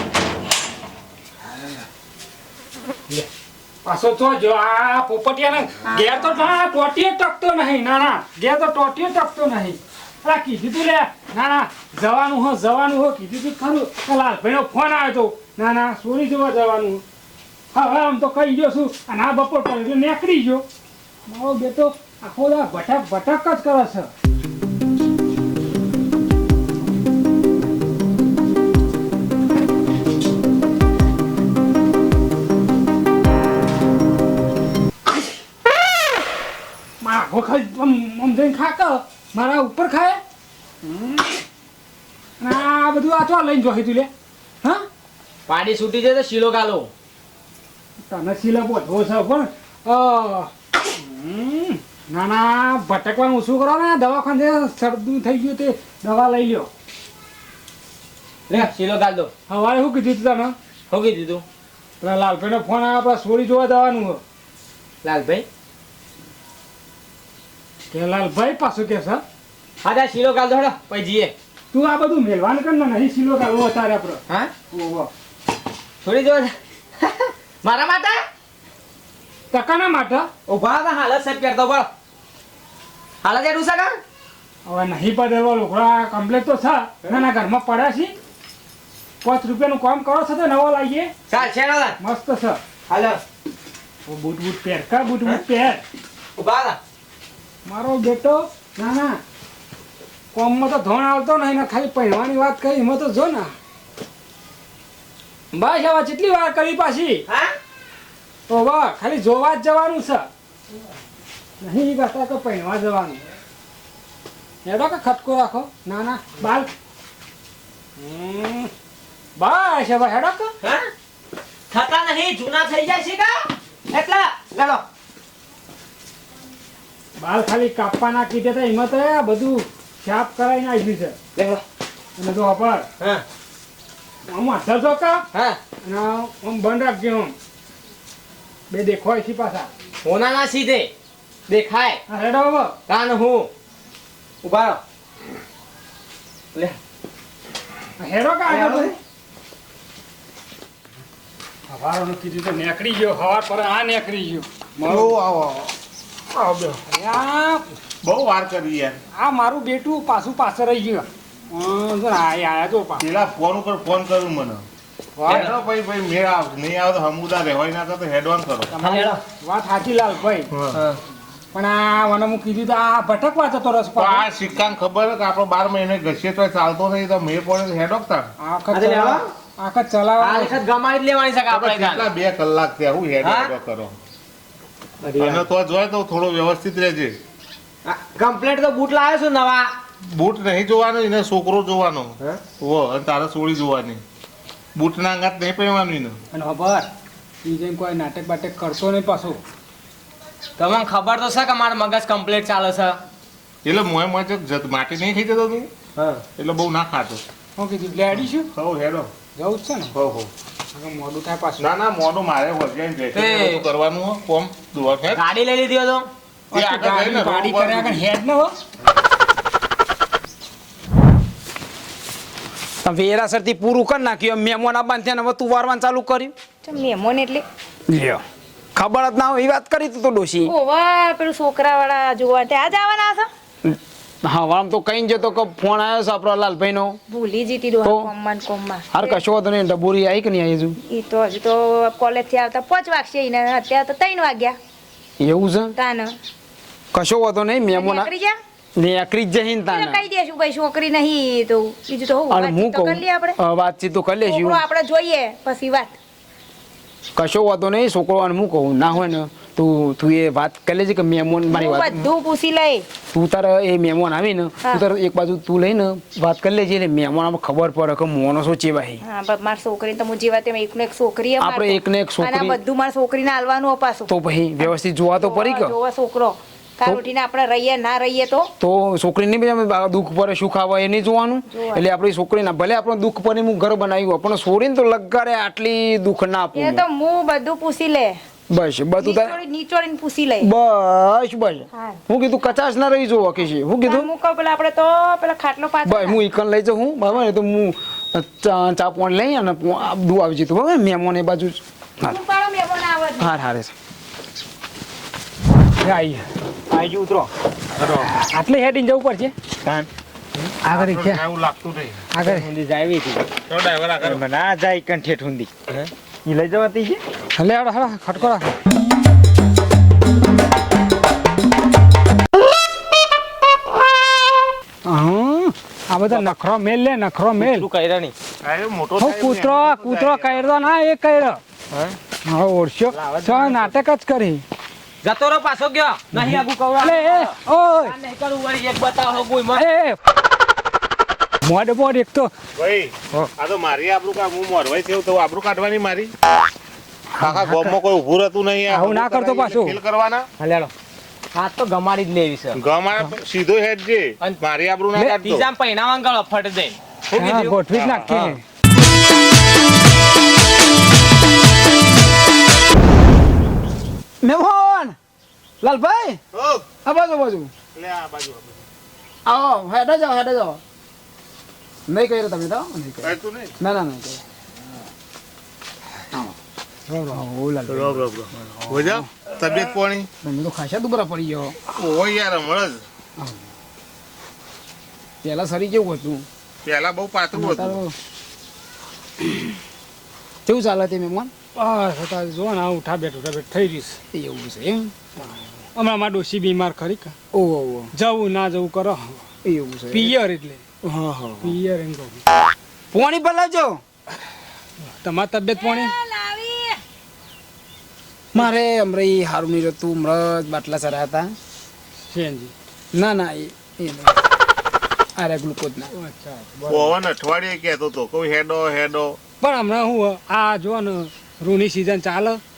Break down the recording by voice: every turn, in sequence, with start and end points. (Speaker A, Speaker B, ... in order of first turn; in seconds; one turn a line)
Speaker A: 3.8-17.0
Speaker A: 17.7-20.6
Speaker A: 21.3-24.1
Speaker A: 37.0-40.2
Speaker A: 40.8-41.3
Speaker A: 42.4-44.1
Speaker B: 45.5-46.9
Speaker A: 48.0-56.7
Speaker B: 58.5-59.3
Speaker A: 59.5-60.5
Speaker B: 60.9-61.4
Speaker A: 62.0-64.2
Speaker B: 65.0-65.5
Speaker A: 67.9-69.2
Speaker B: 69.8-71.3
Speaker A: 71.7-75.1
Speaker B: 74.3-74.5
Speaker B: 76.0-78.2
Speaker A: 79.5-80.3
Speaker B: 80.5-81.9
Speaker B: 83.2-84.0
Speaker A: 84.6-88.1
Speaker A: 89.2-91.1
Speaker B: 91.3-92.0
Speaker A: 92.0-92.6
Speaker B: 92.9-93.2
Speaker A: 94.0-95.8
Speaker B: 96.4-96.8
Speaker A: 97.7-99.2
Speaker A: 100.3-103.5
Speaker A: 105.5-107.2
Speaker B: 107.3-107.5
Speaker A: 108.5-110.3
Speaker A: 111.6-113.2
Speaker A: 114.6-116.7
Speaker A: 118.0-118.7
Speaker A: 119.3-120.5
Speaker B: 120.6-120.8
Speaker B: 121.7-124.8
Speaker A: 127.2-131.2
Speaker B: 131.3-131.6
Speaker A: 132.2-132.8
Speaker B: 133.0-133.2
Speaker A: 134.3-135.2
Speaker B: 135.3-135.6
Speaker A: 135.8-137.3
Speaker A: 138.7-139.7
Speaker B: 140.0-140.9
Speaker B: 141.5-142.0
Speaker A: 142.1-142.8
Speaker B: 142.9-143.5
Speaker B: 144.4-144.8
Speaker A: 148.0-148.9
Speaker B: 148.5-148.9
Speaker A: 151.7-155.1
Speaker C: 154.9-155.7
Speaker C: 156.4-156.8
Speaker A: 156.9-157.7
Speaker C: 158.0-159.0
Speaker A: 159.1-163.1
Speaker C: 163.0-164.7
Speaker A: 165.2-165.5
Speaker C: 165.3-168.7
Speaker B: 165.3-165.5
Speaker A: 168.7-170.5
Speaker B: 168.8-169.2
Speaker C: 170.5-170.8
Speaker A: 171.5-174.3
Speaker C: 174.0-178.3
Speaker A: 178.4-180.6
Speaker B: 178.7-179.2
Speaker B: 180.2-182.1
Speaker C: 181.5-183.9
Speaker B: 183.2-183.5
Speaker B: 185.0-185.5
Speaker C: 185.2-187.2
Speaker B: 187.8-189.7
Speaker C: 190.1-194.0
Speaker C: 194.7-196.2
Speaker A: 196.3-196.9
Speaker A: 197.4-199.4
Speaker B: 200.6-203.0
Speaker C: 203.6-205.7
Speaker B: 205.9-206.2
Speaker C: 206.3-207.2
Speaker A: 207.6-208.5
Speaker C: 208.5-209.1
Speaker A: 209.3-209.9
Speaker C: 209.9-210.3
Speaker A: 210.7-211.7
Speaker C: 211.6-215.2
Speaker B: 213.1-213.7
Speaker B: 215.1-216.1
Speaker A: 216.5-218.5
Speaker C: 216.5-218.0
Speaker D: 222.8-226.3
Speaker E: 226.6-227.4
Speaker D: 227.9-228.2
Speaker D: 228.7-230.5
Speaker E: 230.4-233.3
Speaker D: 233.6-237.0
Speaker E: 237.1-239.2
Speaker D: 237.8-238.1
Speaker D: 238.9-240.8
Speaker E: 240.8-244.6
Speaker D: 245.2-245.7
Speaker E: 245.7-246.1
Speaker D: 246.9-248.1
Speaker E: 247.7-248.4
Speaker D: 248.8-250.0
Speaker E: 249.7-253.4
Speaker D: 252.3-254.6
Speaker E: 254.2-255.9
Speaker D: 257.1-262.1
Speaker E: 261.5-262.9
Speaker D: 263.1-269.0
Speaker E: 269.0-274.1
Speaker D: 271.4-272.6
Speaker D: 274.1-275.8
Speaker E: 274.7-278.5
Speaker D: 278.6-286.9
Speaker E: 281.5-281.9
Speaker E: 286.5-288.1
Speaker D: 288.5-289.4
Speaker E: 289.0-290.5
Speaker D: 290.4-294.1
Speaker E: 291.7-292.0
Speaker E: 293.8-296.2
Speaker D: 295.9-302.2
Speaker E: 302.0-303.3
Speaker D: 303.2-303.7
Speaker A: 305.8-306.3
Speaker B: 306.7-307.2
Speaker C: 307.8-308.1
Speaker A: 308.0-309.3
Speaker A: 310.6-311.2
Speaker C: 310.7-312.0
Speaker A: 312.1-312.5
Speaker B: 312.2-313.2
Speaker C: 313.5-314.2
Speaker B: 314.0-317.0
Speaker A: 317.3-318.6
Speaker A: 324.9-327.7
Speaker B: 326.1-326.3
Speaker B: 327.4-328.1
Speaker C: 328.4-330.7
Speaker A: 329.0-331.4
Speaker B: 331.7-332.0
Speaker A: 332.2-334.4
Speaker C: 333.1-333.7
Speaker B: 335.0-339.6
Speaker A: 336.1-337.9
Speaker A: 339.5-340.0
Speaker A: 341.4-342.3
Speaker C: 342.6-346.1
Speaker C: 347.2-350.3
Speaker A: 347.2-347.7
Speaker A: 348.7-349.8
Speaker B: 350.4-350.7
Speaker B: 351.3-352.6
Speaker C: 352.5-355.5
Speaker B: 355.2-357.6
Speaker A: 357.1-358.4
Speaker C: 357.7-358.3
Speaker B: 358.1-358.4
Speaker D: 364.2-364.9
Speaker D: 365.6-366.2
Speaker C: 366.3-366.7
Speaker D: 366.8-367.5
Speaker C: 367.7-368.6
Speaker D: 369.2-370.6
Speaker D: 371.9-374.2
Speaker C: 373.0-373.5
Speaker A: 376.9-377.2
Speaker D: 377.0-379.7
Speaker C: 377.7-380.1
Speaker D: 380.2-381.6
Speaker C: 381.7-382.8
Speaker D: 385.2-386.3
Speaker C: 386.6-387.8
Speaker D: 387.3-387.9
Speaker D: 390.4-391.3
Speaker A: 391.5-394.0
Speaker D: 394.1-394.9
Speaker A: 395.2-397.1
Speaker D: 397.3-397.9
Speaker A: 397.9-399.2
Speaker D: 399.4-400.1
Speaker A: 399.9-400.6
Speaker D: 400.8-401.6
Speaker A: 401.4-402.2
Speaker D: 402.9-403.8
Speaker A: 404.8-405.9
Speaker E: 405.6-406.8
Speaker D: 408.3-411.3
Speaker A: 412.0-412.5
Speaker D: 412.9-414.2
Speaker D: 415.1-415.9
Speaker A: 415.9-416.9
Speaker C: 416.7-419.2
Speaker A: 419.4-422.4